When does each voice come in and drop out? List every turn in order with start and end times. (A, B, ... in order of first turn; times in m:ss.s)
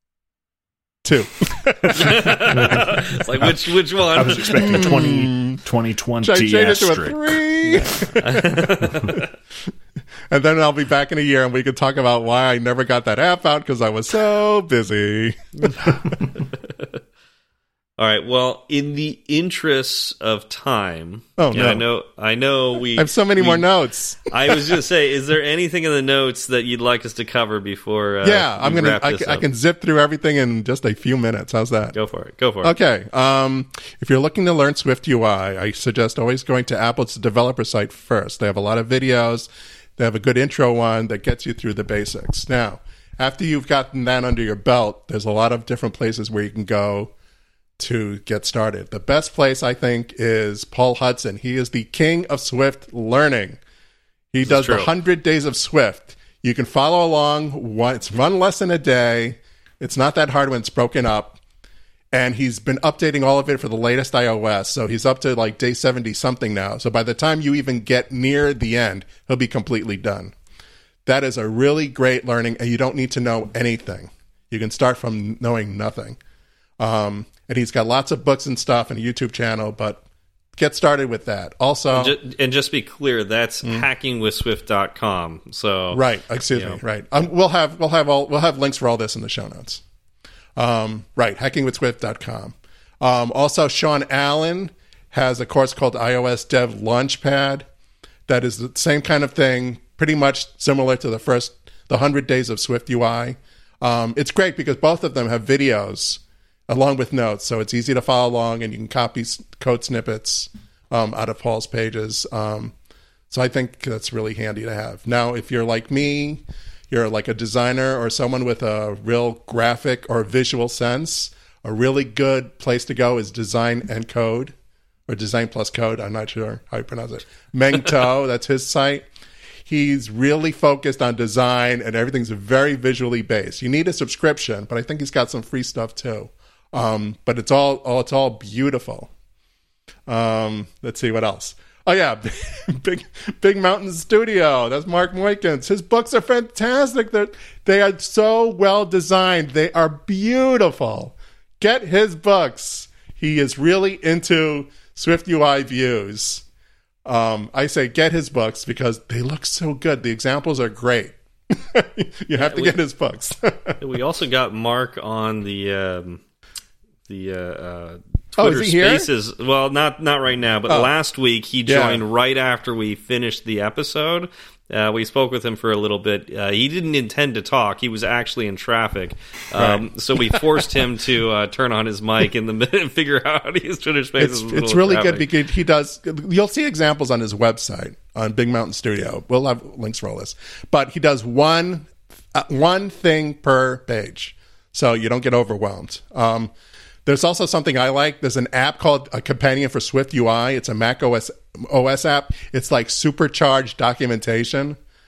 0:01.0-0:02.7 A
0:02.0-0:05.0 B
0:03.4-0:07.4 C
0:04.6-0:05.6 A
0:06.2-0:09.2 A
0:08.0-0:09.2 B
0:10.3-0:15.7 A
0:18.0-0:23.7 B
0:21.4-0:21.8 A
0:23.0-0:24.7 A
0:24.3-0:29.4 B
0:28.2-0:31.9 A
0:31.9-0:32.7 B
0:32.6-0:47.1 A
0:47.8-0:53.6 A
0:54.3-1:01.4 A
0:54.4-0:54.9 B
1:02.1-1:10.3 A
1:11.0-1:16.2 A
1:16.8-1:20.0 A
1:20.6-1:22.1 A
1:21.9-1:26.0 B
1:25.9-1:29.8 A
1:26.5-1:26.8 B
1:30.6-1:37.6 A
1:38.3-1:52.7 A
1:53.3-2:04.5 A
2:05.1-2:09.0 A
2:09.7-2:19.1 A
2:20.1-2:36.4 A
2:37.0-2:43.8 A
2:42.3-2:42.8 B
2:43.8-2:46.2 B
2:47.1-3:05.3 B
2:48.4-2:49.1 A
2:51.6-2:52.0 A
2:59.6-3:00.6 A
3:04.2-3:16.5 A
3:17.0-3:24.8 A